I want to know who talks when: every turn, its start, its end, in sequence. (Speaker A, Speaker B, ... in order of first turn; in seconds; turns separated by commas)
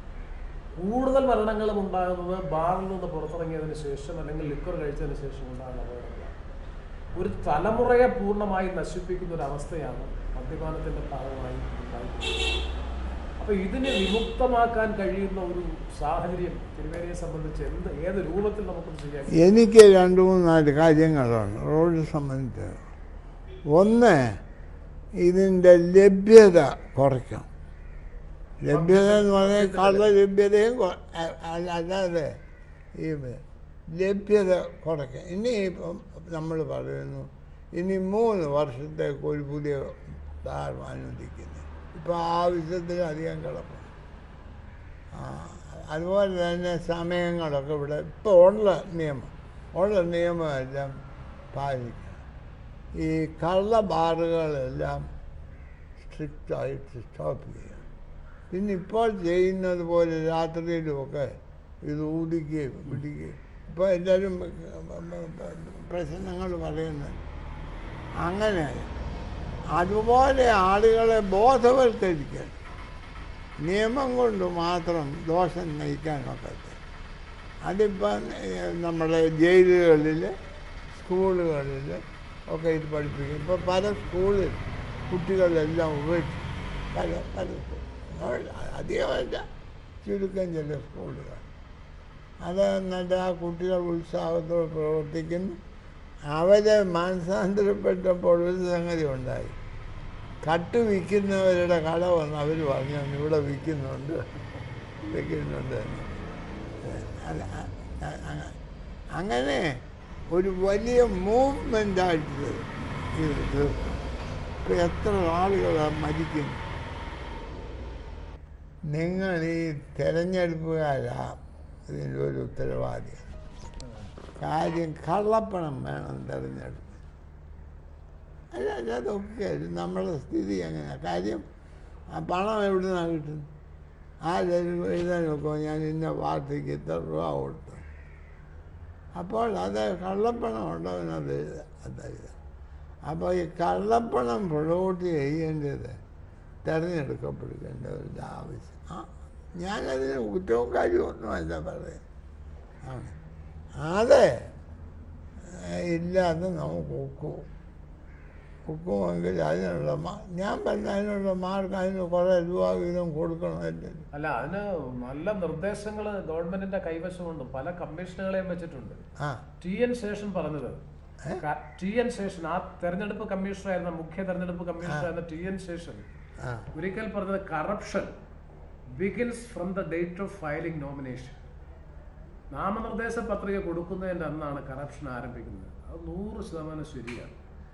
Speaker A: 0.8-6.4, Speaker A: 7.2-12.5, Speaker A: 13.4-19.5, Speaker B: 19.4-22.8, Speaker B: 23.8-24.4, Speaker B: 25.2-27.5, Speaker B: 28.6-32.4, Speaker A: 28.7-30.1, Speaker B: 33.0-33.4, Speaker B: 34.0-43.9, Speaker B: 45.1-50.9, Speaker B: 51.5-52.2, Speaker B: 53.0-55.0, Speaker B: 56.0-57.9, Speaker B: 58.5-61.3, Speaker B: 61.9-67.2, Speaker B: 68.2-68.9, Speaker B: 69.8-72.6, Speaker B: 73.6-76.8, Speaker B: 77.7-80.3, Speaker B: 80.9-89.5, Speaker B: 90.0-91.5, Speaker B: 92.4-95.6, Speaker B: 96.3-99.6, Speaker B: 100.5-104.2, Speaker B: 105.1-106.1, Speaker B: 106.8-108.6, Speaker B: 109.2-109.7, Speaker B: 110.3-114.0, Speaker B: 114.6-116.6, Speaker B: 118.9-123.3, Speaker B: 124.4-127.0, Speaker B: 128.5-131.4, Speaker B: 132.1-133.5, Speaker B: 134.3-137.9, Speaker B: 139.2-142.4, Speaker B: 143.1-146.0, Speaker B: 146.7-152.0, Speaker B: 152.9-153.2, Speaker B: 153.8-154.3, Speaker B: 155.5-157.5, Speaker B: 158.7-164.0, Speaker A: 164.1-169.0, Speaker B: 169.2-169.4, Speaker A: 169.6-170.8, Speaker A: 171.4-176.1, Speaker B: 176.4-176.7, Speaker A: 176.8-178.1, Speaker A: 179.0-181.4, Speaker A: 182.5-187.4